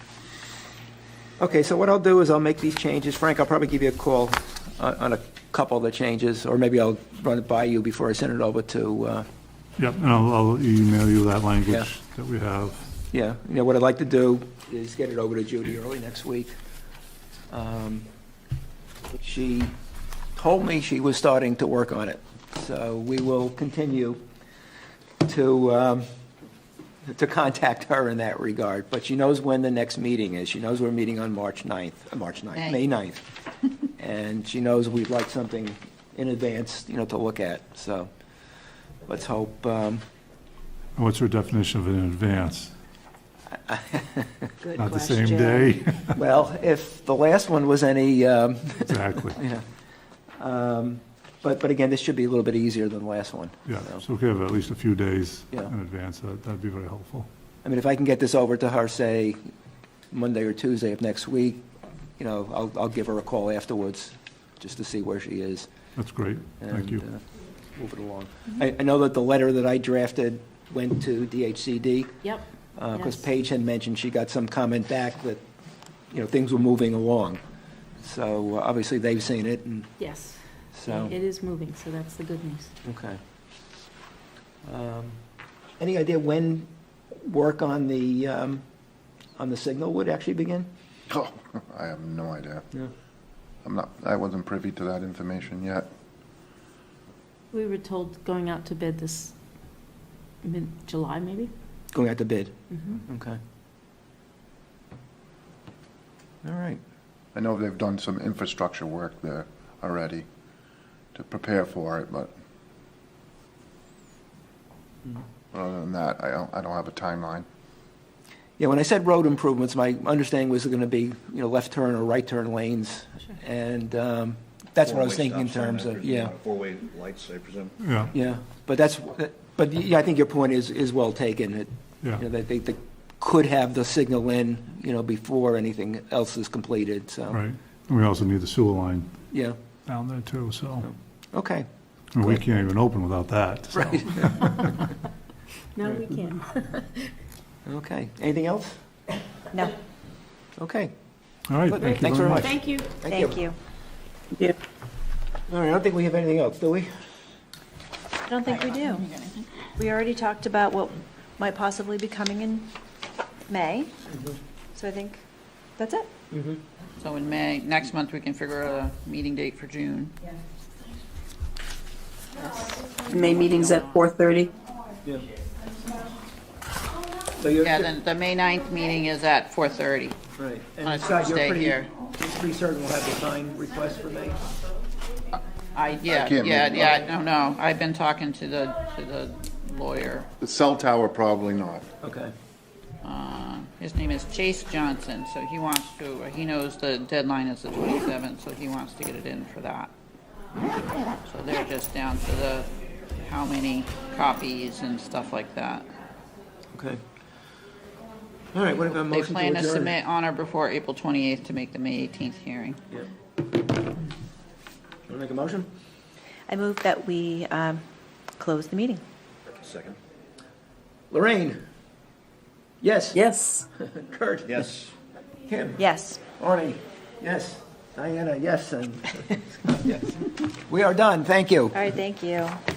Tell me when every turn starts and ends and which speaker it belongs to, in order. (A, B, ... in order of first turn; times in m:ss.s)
0:01.4-0:09.3 A
0:09.8-0:12.8 B
0:13.1-0:16.5 A
0:17.5-0:18.1 A
0:19.2-0:19.7 A
0:20.4-0:24.2 A
0:25.2-0:26.1 A
0:27.0-0:33.2 A
0:34.0-0:38.1 A
0:39.1-0:40.0 A
0:41.0-0:42.7 B
0:43.7-0:44.3 A
0:44.6-0:45.8 C
0:44.8-0:46.2 B
0:46.1-0:49.6 A
0:48.8-0:49.4 B
0:50.4-0:54.0 A
0:53.7-0:57.3 B
0:57.6-0:59.4 A
1:00.1-1:01.6 A
1:02.2-1:05.7 A
1:06.0-1:07.0 B
1:06.6-1:07.2 A
1:07.7-1:12.1 A
1:12.2-1:13.2 D
1:12.8-1:15.4 A
1:16.1-1:17.4 A
1:18.0-1:20.0 A
1:20.0-1:22.7 D
1:20.7-1:21.2 A
1:22.8-1:23.2 A
1:24.6-1:25.2 A
1:25.8-1:28.6 A
1:29.4-1:30.7 A
1:31.1-1:32.7 E
1:33.6-1:35.9 E
1:37.5-1:39.4 D
1:40.4-1:41.5 D
1:41.9-1:43.4 A
1:42.7-1:43.0 D
1:46.4-1:46.8 A
1:47.3-1:50.3 E
1:51.1-1:52.3 E
1:55.5-1:57.5 E
1:58.6-2:06.3 A
2:04.8-2:07.8 F
2:07.8-2:08.1 B
2:08.1-2:17.4 A
2:17.3-2:20.9 B
2:20.8-2:21.7 A
2:22.1-2:24.9 B
2:22.2-2:22.4 A
2:23.7-2:24.4 A
2:25.8-2:27.1 D
2:27.7-2:28.8 A
2:30.6-2:30.9 A
2:31.5-2:32.6 B
2:31.7-2:33.4 A
2:32.4-2:32.9 D
2:33.1-2:33.6 C
2:35.5-2:36.9 A
2:38.3-2:39.1 C
2:38.5-2:39.5 G
2:39.8-2:42.7 C
2:43.5-2:43.9 C
2:44.8-2:45.2 C
2:45.8-2:46.1 C
2:47.0-2:50.2 G
2:53.1-2:54.5 H
2:53.1-2:54.0 G
2:57.4-2:57.9 A
2:57.6-3:00.2 G
3:00.4-3:04.4 A
3:00.8-3:01.9 G
3:05.8-3:10.3 G
3:06.1-3:07.0 E
3:10.4-3:11.9 E
3:12.0-3:12.3 A
3:13.0-3:19.9 G
3:21.2-3:25.9 G
3:26.7-3:27.0 A
3:28.5-3:30.0 A
3:28.9-3:32.8 G
3:35.1-3:35.7 A
3:36.5-3:37.8 C
3:38.4-3:39.0 C
3:39.5-3:40.0 F
3:41.1-3:41.6 A
3:42.8-3:44.7 A
3:43.1-3:43.7 H
3:44.5-3:44.9 F
3:45.5-3:51.8 A
3:45.8-3:46.2 C
3:51.7-3:52.6 C